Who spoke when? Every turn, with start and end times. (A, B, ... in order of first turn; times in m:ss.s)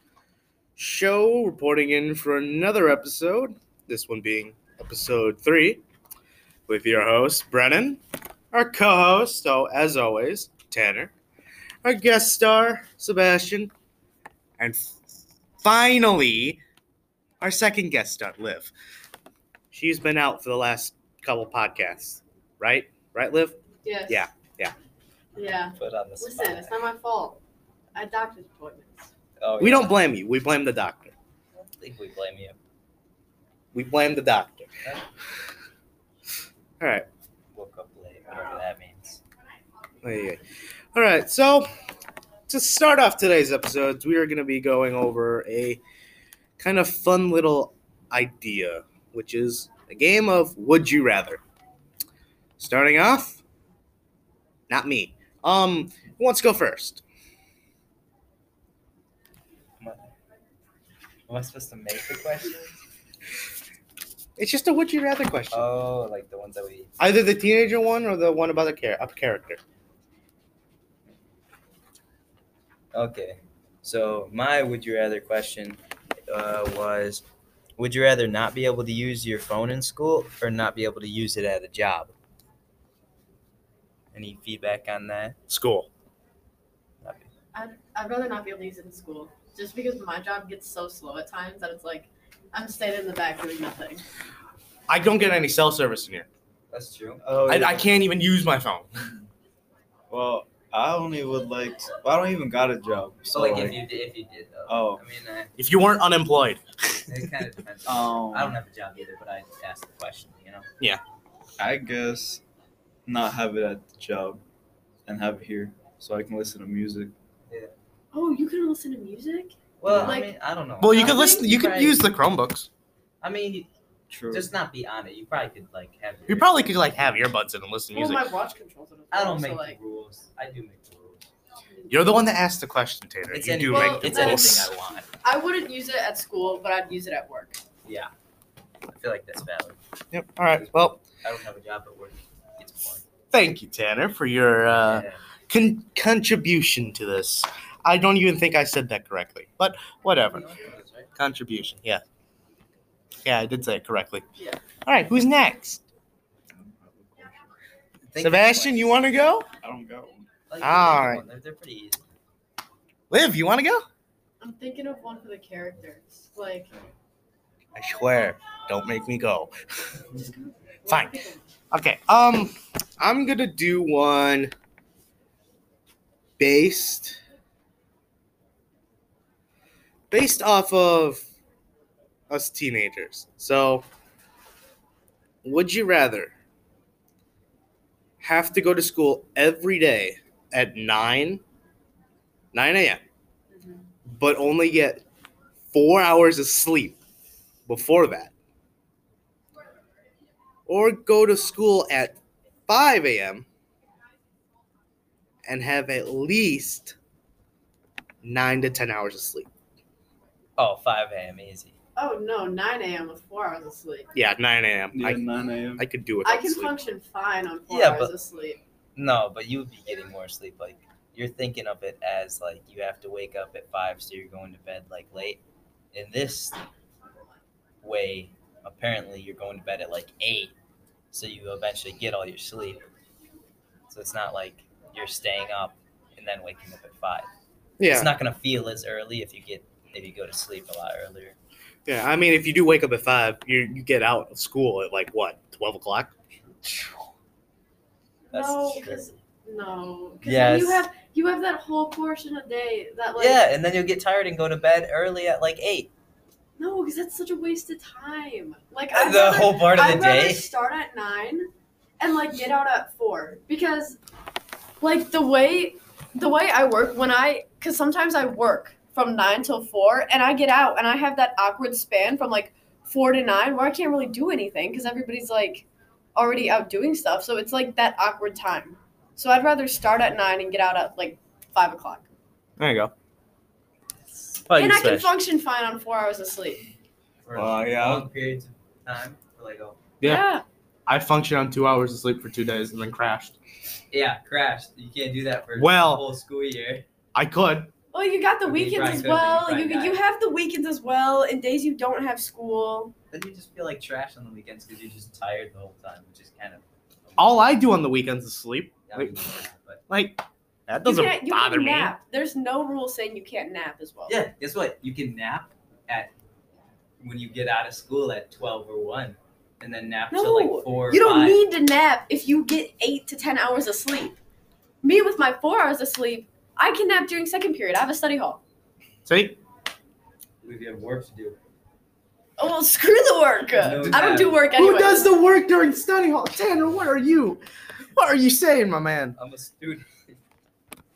0:00.8-0:05.8 A
0:06.7-0:08.0 A
0:08.5-0:11.1 A
0:11.8-0:13.7 A
0:14.6-0:16.6 A
0:17.4-0:18.7 A
0:19.7-0:24.7 A
0:23.8-0:24.3 B
0:25.3-0:27.4 B
0:25.7-0:26.7 C
0:27.9-0:29.1 B
0:29.4-0:30.0 C
0:29.6-0:31.1 A
0:31.8-0:32.6 C
0:33.7-0:34.7 A
0:36.8-0:37.1 A
0:37.5-0:39.2 C
0:40.0-0:40.4 A
0:40.9-0:41.7 A
0:42.5-0:45.8 A
0:46.6-0:51.4 A
0:52.6-0:53.4 A
0:54.7-0:57.0 A
0:59.8-1:00.1 C
1:01.3-1:02.8 C
1:04.4-1:05.6 A
1:05.5-1:06.9 C
1:07.0-1:09.6 A
1:12.9-1:17.2 C
1:17.8-1:22.1 C
1:24.1-1:25.4 C
1:25.5-1:25.9 A
1:27.0-1:27.3 C
1:27.5-1:34.0 B
1:34.9-1:36.3 A
1:36.7-1:37.2 C
1:37.2-1:37.9 D
1:37.5-1:39.0 A
1:40.1-1:43.8 D
1:43.3-1:45.5 C
1:44.7-1:45.0 D
1:45.6-1:47.0 A
1:47.1-1:50.7 C
1:47.8-1:48.6 D
1:51.6-1:52.4 D
1:53.0-1:54.4 D
1:55.0-1:57.1 D
1:57.5-1:57.7 C
1:58.1-2:00.3 B
1:59.8-2:02.0 C
1:59.8-2:00.2 D
2:00.8-2:02.7 A
2:00.8-2:01.6 B
2:03.2-2:03.7 C
2:04.1-2:04.5 D
2:04.3-2:06.8 C
2:06.3-2:08.3 A
2:07.9-2:09.8 B
2:09.1-2:11.3 C
2:11.9-2:14.7 A
2:13.3-2:15.1 C
2:13.7-2:14.6 B
2:15.2-2:17.6 B
2:17.8-2:18.1 C
2:18.9-2:19.8 C
2:20.1-2:21.0 A
2:20.6-2:23.0 C
2:23.3-2:30.5 A
2:24.7-2:25.2 C
2:30.2-2:31.1 C
2:31.1-2:32.0 A
2:33.2-2:34.2 A
2:34.8-2:35.8 A
2:36.7-2:37.4 D
2:38.1-2:38.9 C
2:38.2-2:39.5 A
2:39.6-2:40.3 D
2:40.5-2:42.0 C
2:40.6-2:41.2 A
2:43.1-2:43.8 A
2:44.4-2:46.7 B
2:47.7-2:49.5 A
2:50.2-2:51.4 B
2:50.9-2:54.5 A
2:56.4-2:57.2 A
3:00.1-3:01.2 A
3:02.3-3:03.9 A
3:05.4-3:06.3 A
3:08.2-3:11.4 A
3:12.5-3:13.0 A
3:13.5-3:13.8 B
3:14.0-3:15.0 A
3:15.7-3:17.0 A
3:17.7-3:18.3 A
3:20.7-3:23.5 A
3:25.4-3:27.0 A
3:28.2-3:29.5 A
3:30.6-3:31.8 C
3:32.0-3:34.1 B
3:34.1-3:35.2 A
3:34.9-3:35.8 D
3:35.8-3:36.8 A
3:36.2-3:38.6 B
3:37.7-3:38.1 C
3:39.0-3:45.4 C
3:45.9-3:46.6 C
3:47.8-3:50.5 C
3:51.1-3:52.8 C
3:53.9-3:57.3 C
3:57.8-3:58.1 A
3:57.8-4:01.4 C
4:01.8-4:06.1 A
4:08.3-4:09.0 C
4:08.3-4:13.5 B
4:10.2-4:10.9 C
4:13.2-4:15.9 C
4:16.6-4:24.0 B
4:18.9-4:20.5 C
4:24.8-4:42.0 B
4:42.6-4:42.9 A
4:44.4-4:45.1 A
4:44.5-4:46.6 B
4:47.2-4:49.8 C
4:47.3-4:48.1 D
4:50.0-4:50.3 A
4:50.0-4:50.4 B
4:50.9-4:53.4 A
4:53.9-4:56.8 C
4:55.6-4:56.0 A
4:57.1-4:57.7 A
4:57.9-5:02.9 B
4:58.4-5:00.0 C
5:03.1-5:07.4 C
5:07.2-5:09.2 A
5:08.9-5:09.8 C
5:09.9-5:11.9 A
5:10.8-5:14.2 B
5:14.1-5:16.1 C
5:17.0-5:21.4 C
5:20.1-5:24.2 B
5:24.8-5:28.4 B
5:29.0-5:29.4 A
5:30.4-5:31.4 C
5:32.4-5:35.1 B
5:33.6-5:34.5 C
5:34.5-5:37.4 A
5:37.9-5:39.2 A
5:39.2-5:40.2 C